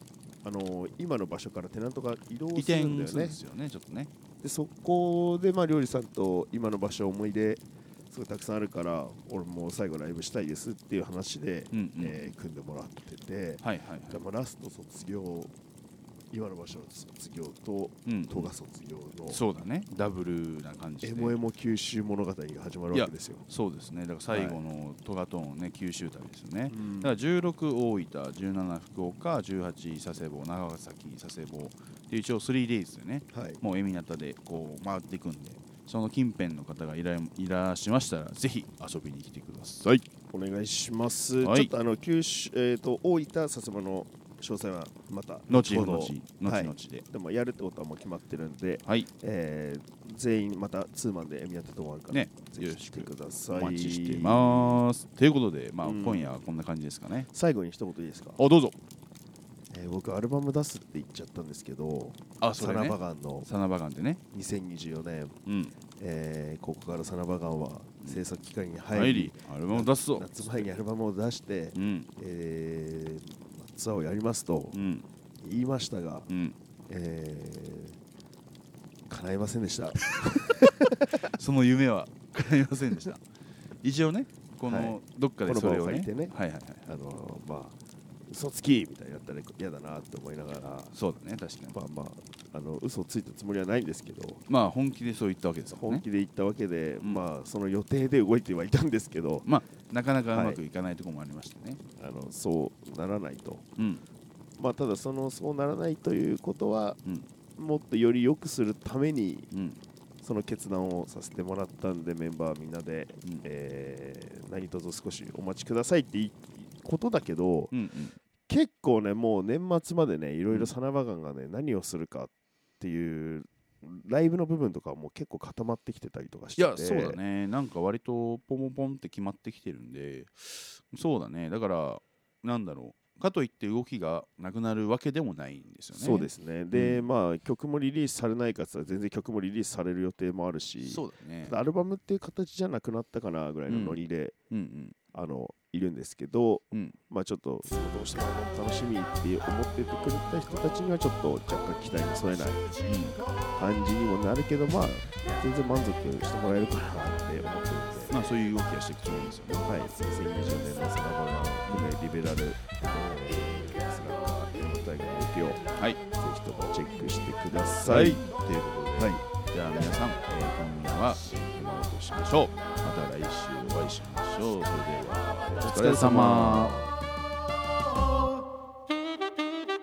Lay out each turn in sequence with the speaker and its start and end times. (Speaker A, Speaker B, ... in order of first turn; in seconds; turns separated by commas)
Speaker A: 0.4-3.4, Speaker B: 2.5-4.1, Speaker A: 4.4-15.5, Speaker B: 11.7-12.3, Speaker B: 13.6-14.2, Speaker A: 16.3-19.4, Speaker B: 18.1-18.5, Speaker B: 19.3-21.4, Speaker A: 21.0-23.4, Speaker B: 22.9-40.0, Speaker A: 24.3-24.6, Speaker A: 26.7-27.2, Speaker A: 33.3-33.6, Speaker A: 40.3-54.8, Speaker B: 41.4-41.7, Speaker B: 45.5-47.0, Speaker B: 52.1-57.3, Speaker A: 55.8-56.4, Speaker A: 57.3-58.4, Speaker B: 58.4-58.8, Speaker A: 59.7-63.5, Speaker B: 62.4-64.2, Speaker A: 64.3-65.4, Speaker B: 65.5-65.7, Speaker A: 65.9-74.8, Speaker B: 68.9-70.7, Speaker B: 71.7-72.1, Speaker B: 74.7-75.0, Speaker A: 75.4-76.3, Speaker B: 76.3-76.5, Speaker A: 76.9-78.0, Speaker A: 79.1-81.2, Speaker B: 80.1-80.6, Speaker B: 81.1-83.2, Speaker B: 83.8-86.9, Speaker A: 84.7-87.8, Speaker A: 88.3-90.9, Speaker B: 90.9-91.8, Speaker A: 91.7-94.4, Speaker B: 94.5-96.0, Speaker A: 95.7-99.5, Speaker B: 99.4-101.8, Speaker A: 100.3-100.6, Speaker A: 102.0-103.7, Speaker B: 103.8-104.0, Speaker A: 104.6-107.0, Speaker B: 107.0-107.3, Speaker A: 107.5-109.5, Speaker B: 109.5-109.8, Speaker A: 110.2-117.7, Speaker B: 117.7-118.2, Speaker A: 118.5-127.2, Speaker B: 126.6-137.0, Speaker A: 135.9-144.3, Speaker B: 140.8-141.6, Speaker B: 143.7-144.0, Speaker B: 144.5-145.0, Speaker A: 145.1-152.7, Speaker B: 146.7-147.0, Speaker B: 152.8-153.2, Speaker A: 153.5-158.1, Speaker B: 158.1-159.7, Speaker A: 159.6-168.3, Speaker B: 161.7-161.9, Speaker B: 167.8-176.8, Speaker A: 175.5-176.9